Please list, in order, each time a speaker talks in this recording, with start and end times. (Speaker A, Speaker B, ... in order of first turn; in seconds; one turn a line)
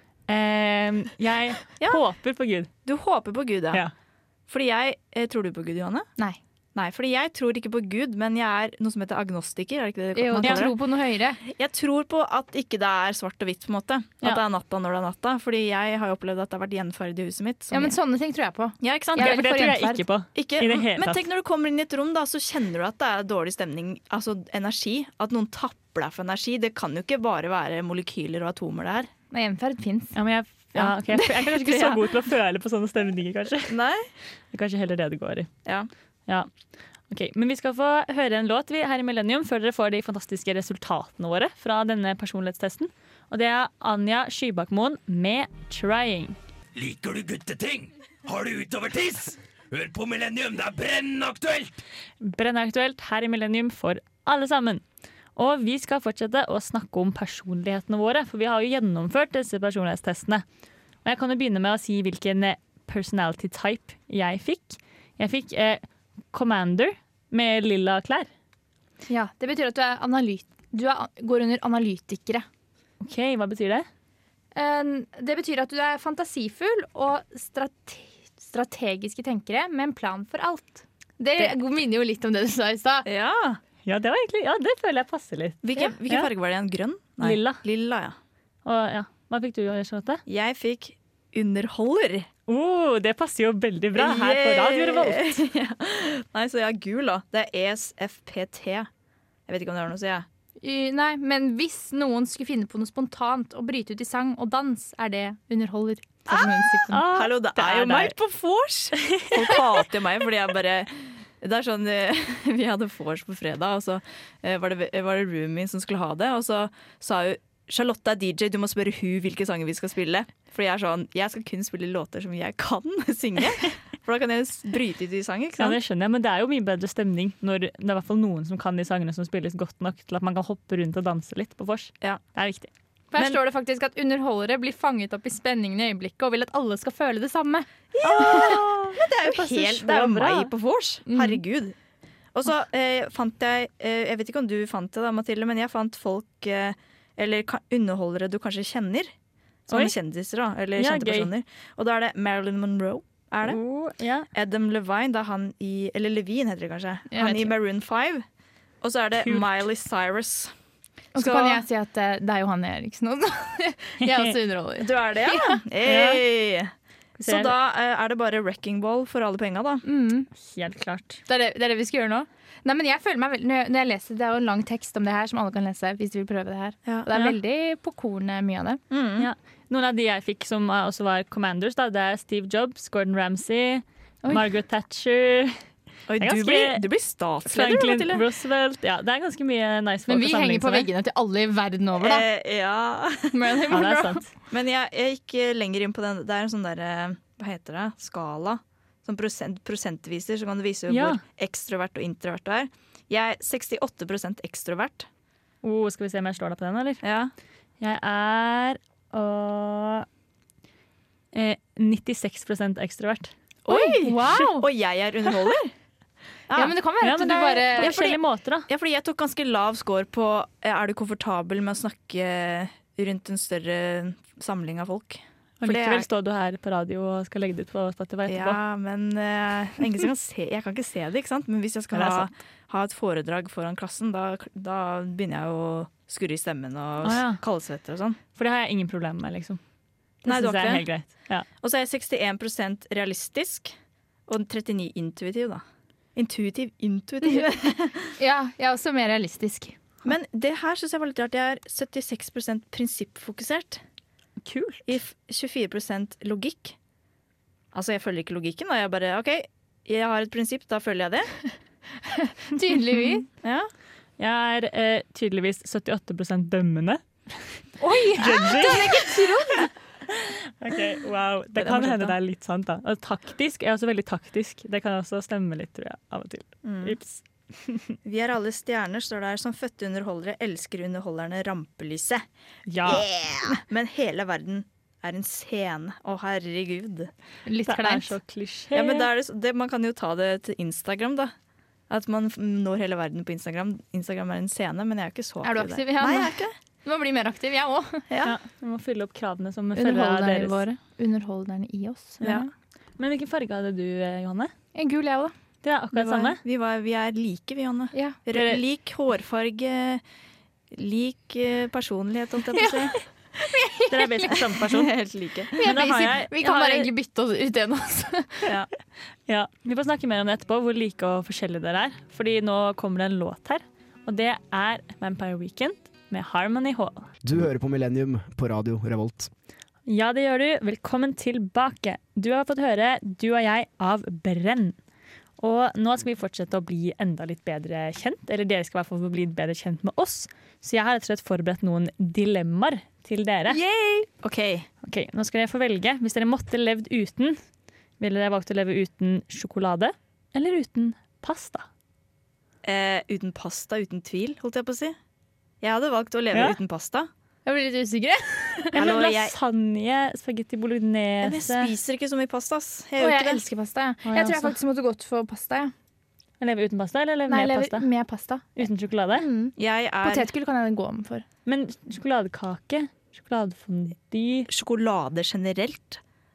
Speaker A: 0.3-2.7
Speaker B: 2.8-3.8
Speaker B: 4.5-6.1
Speaker B: 6.7-10.8
Speaker C: 10.1-11.4
Speaker A: 10.4-10.7
Speaker B: 11.4-17.9
Speaker C: 17.7-20.0
Speaker B: 18.8-19.4
Speaker A: 19.1-21.2
Speaker B: 20.3-29.1
Speaker C: 29.3-30.1
Speaker A: 30.1-33.7
Speaker B: 30.8-32.1
Speaker B: 33.7-34.1
Speaker A: 34.5-35.5
Speaker B: 35.6-35.9
Speaker A: 37.1-46.4
Speaker D: 46.7-51.8
Speaker A: 52.2-54.8
Speaker A: 55.4-60.4
Speaker A: 61.0-68.3
Speaker C: 69.1-72.5
Speaker A: 73.0-73.9
Speaker C: 74.5-83.1
Speaker B: 83.0-83.6
Speaker A: 83.8-86.3
Speaker B: 85.6-88.2
Speaker A: 87.2-87.6
Speaker A: 88.6-90.2
Speaker B: 90.3-92.3
Speaker A: 92.5-95.4
Speaker B: 93.9-98.9
Speaker B: 99.5-100.2
Speaker C: 100.6-108.1
Speaker A: 106.9-107.3
Speaker B: 107.0-125.8
Speaker A: 125.6-132.7
Speaker C: 133.1-138.6
Speaker B: 138.0-141.7
Speaker A: 138.0-140.5
Speaker C: 141.1-141.4
Speaker B: 142.3-149.1
Speaker B: 149.7-153.6
Speaker A: 150.8-151.3
Speaker A: 153.4-154.3
Speaker B: 154.3-158.2
Speaker C: 157.1-157.5
Speaker B: 158.8-160.5
Speaker A: 159.2-159.6
Speaker B: 161.1-161.6
Speaker C: 161.1-165.6
Speaker A: 164.0-164.3
Speaker B: 164.8-166.7
Speaker A: 165.8-166.2
Speaker A: 167.2-167.5
Speaker B: 167.2-169.8
Speaker C: 169.8-170.3
Speaker A: 170.4-171.2
Speaker C: 171.3-178.8
Speaker B: 178.9-179.3
Speaker A: 179.2-185.6
Speaker B: 186.1-188.2
Speaker A: 186.2-186.8
Speaker A: 187.4-190.9
Speaker C: 190.1-192.2
Speaker B: 192.0-193.6
Speaker C: 193.3-194.2
Speaker A: 193.7-194.3
Speaker B: 194.5-205.1
Speaker A: 200.9-201.2
Speaker A: 205.6-207.0
Speaker B: 207.0-207.3
Speaker A: 207.8-210.1
Speaker A: 211.3-213.3
Speaker B: 213.6-215.7
Speaker C: 213.7-214.7
Speaker B: 216.5-216.8
Speaker C: 216.5-218.0
Speaker A: 217.0-218.7
Speaker B: 217.8-226.1
Speaker A: 225.6-228.6
Speaker B: 228.3-238.2
Speaker A: 231.9-232.3
Speaker A: 237.0-237.4
Speaker A: 238.3-239.6
Speaker A: 240.2-241.5
Speaker B: 240.2-240.9
Speaker B: 241.6-243.7
Speaker B: 244.3-245.6
Speaker B: 246.2-248.1
Speaker C: 248.2-249.8
Speaker B: 250.0-253.8
Speaker A: 254.4-254.9
Speaker B: 254.9-256.8
Speaker B: 257.7-261.3
Speaker C: 262.1-263.2
Speaker B: 263.4-263.7
Speaker A: 264.2-267.5
Speaker C: 267.8-269.7
Speaker A: 268.1-269.1
Speaker A: 270.1-277.9
Speaker B: 271.5-272.2
Speaker B: 276.6-277.0
Speaker B: 278.0-282.2
Speaker A: 282.7-283.1
Speaker B: 282.8-287.1
Speaker C: 287.4-288.1
Speaker A: 287.6-289.1
Speaker B: 288.7-291.3
Speaker B: 291.9-296.5
Speaker C: 295.4-298.0
Speaker B: 298.1-298.3
Speaker A: 298.2-300.6
Speaker C: 299.8-302.5
Speaker B: 302.2-302.5
Speaker A: 303.0-304.5
Speaker C: 304.7-305.3
Speaker A: 305.6-306.4
Speaker B: 305.9-310.0
Speaker C: 307.9-308.2
Speaker A: 308.3-308.6
Speaker B: 310.7-312.9
Speaker C: 313.4-314.5
Speaker A: 313.9-315.0
Speaker B: 314.6-315.6
Speaker C: 315.6-318.5
Speaker A: 315.6-316.9
Speaker A: 319.3-327.1
Speaker E: 327.2-329.3
Speaker A: 329.9-334.8
Speaker A: 335.4-343.6
Speaker B: 343.5-344.7
Speaker A: 344.8-347.4
Speaker A: 348.0-351.6
Speaker B: 352.6-354.9
Speaker B: 355.6-357.1
Speaker C: 357.4-358.7
Speaker A: 358.7-361.7
Speaker B: 358.7-359.3
Speaker B: 361.2-363.4
Speaker C: 363.0-365.7
Speaker A: 364.1-364.6
Speaker A: 366.4-367.9
Speaker C: 367.3-371.2
Speaker A: 368.6-369.3
Speaker B: 369.6-370.3
Speaker A: 371.4-374.5
Speaker B: 374.5-376.0